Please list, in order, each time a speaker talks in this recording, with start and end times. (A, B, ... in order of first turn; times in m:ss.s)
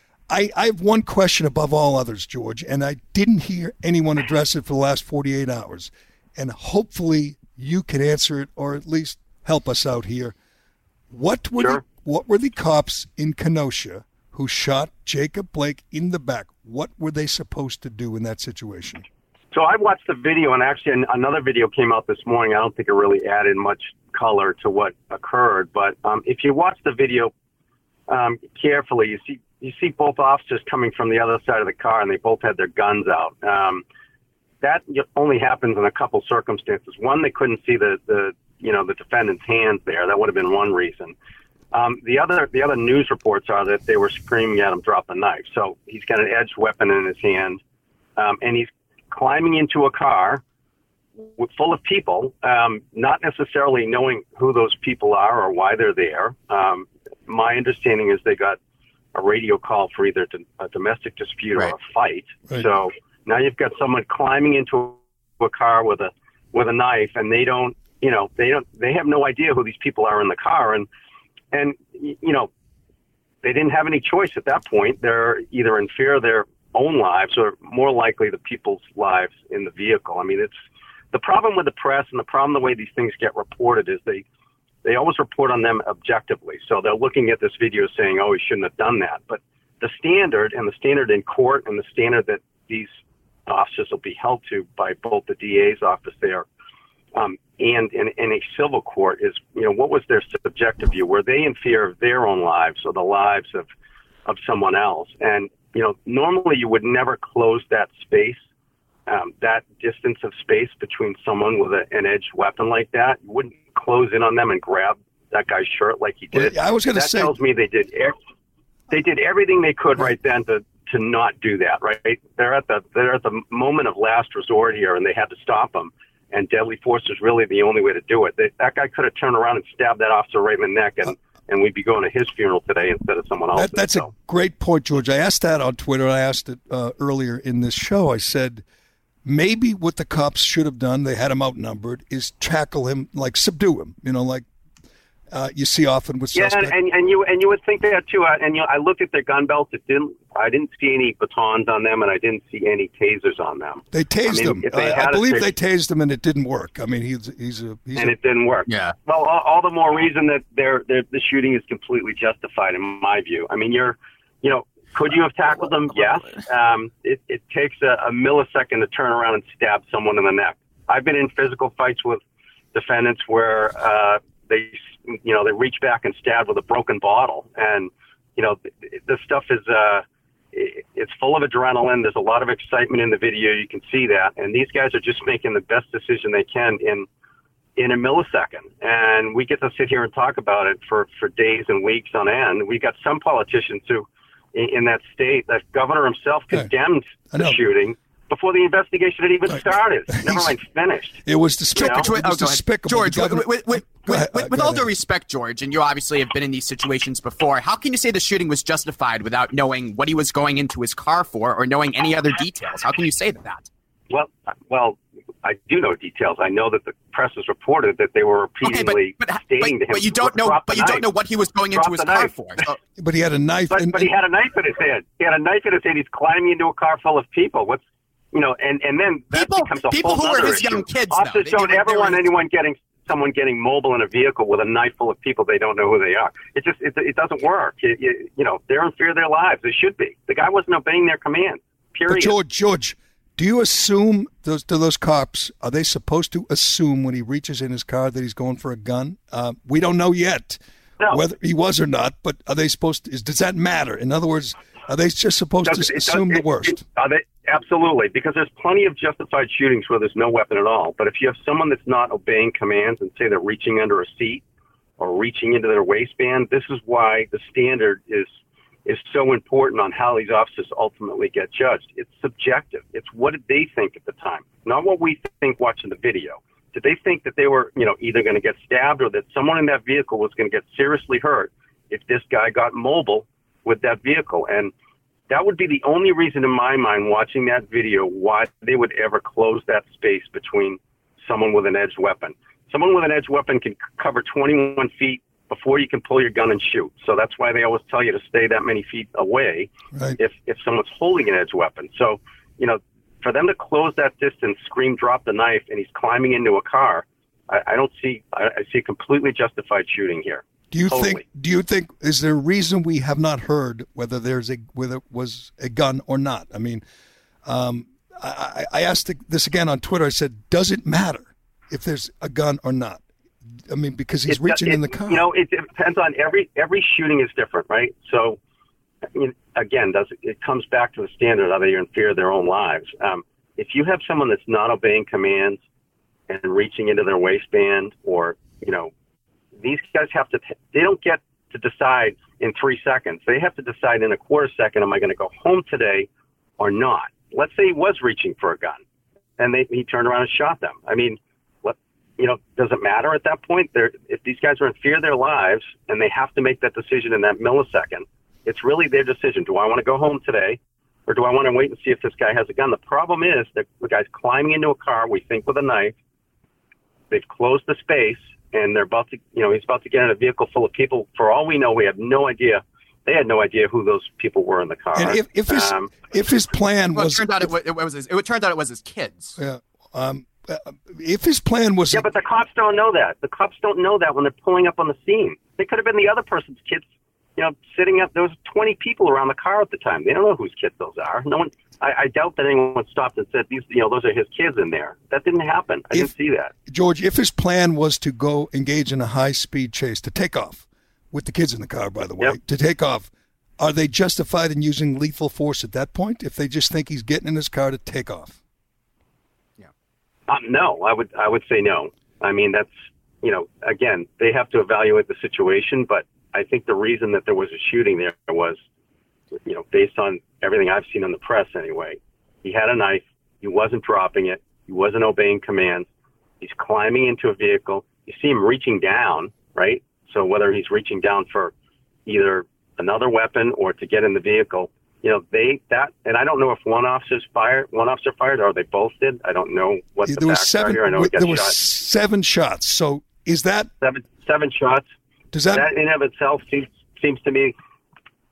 0:00.3-0:10.4 A
0:11.1-0:19.1 A
0:19.5-0:27.3 B
0:28.1-0:33.8 B
0:34.6-0:41.1 B
0:41.7-0:47.6 B
0:48.2-0:50.4 B
0:51.2-0:58.6 B
0:59.1-1:10.9 B
1:11.5-1:12.5 B
1:13.4-1:20.5 B
1:21.1-1:24.2 B
1:24.8-1:32.9 B
1:33.5-1:36.5 B
1:37.1-1:43.7 B
1:44.3-1:48.4 B
1:49.1-1:58.2 B
1:56.3-1:57.3 A
1:58.9-2:14.1 B
2:13.5-2:18.6 A
2:19.2-2:24.5 A
2:25.3-2:26.7 A
2:26.4-2:35.5 B
2:33.9-2:38.1 A
2:38.0-2:52.2 B
2:38.7-2:38.9 C
2:52.7-3:07.1 B
3:07.8-3:21.2 B
3:17.3-3:17.6 A
3:19.5-3:20.6 A
3:21.2-3:24.9 A
3:21.8-3:33.7 C
3:21.8-3:22.1 B
3:34.1-3:41.1 B
3:38.6-3:42.8 C
3:41.7-3:42.7 B
3:43.0-3:44.1 A
3:43.7-4:02.3 B
3:49.3-3:52.2 C
4:02.1-4:16.8 A
4:15.7-4:24.4 B
4:25.0-4:28.3 B
4:28.9-4:44.7 B
4:45.3-5:11.2 B
5:10.7-5:16.8 A
5:17.5-5:23.0 A
5:23.7-5:25.3 A
5:24.3-5:28.4 B
5:29.1-5:35.6 B
5:36.3-5:38.9 B
5:39.6-5:46.1 B
5:46.6-5:48.8 B
5:49.4-6:06.0 B
6:07.1-6:16.0 B
6:15.0-6:17.3 A
6:16.9-6:19.4 C
6:19.4-6:22.1 A
6:21.9-6:26.8 B
6:27.4-6:36.5 B
6:36.7-6:43.1 A
6:43.6-6:48.4 A
6:50.3-6:52.7 B
6:53.2-6:58.6 B
6:59.5-7:05.9 B
7:06.4-7:11.5 B
7:12.1-7:21.6 B
7:20.1-7:23.7 A
7:23.8-7:24.8 B
7:25.3-7:25.7 A
7:25.5-7:27.5 B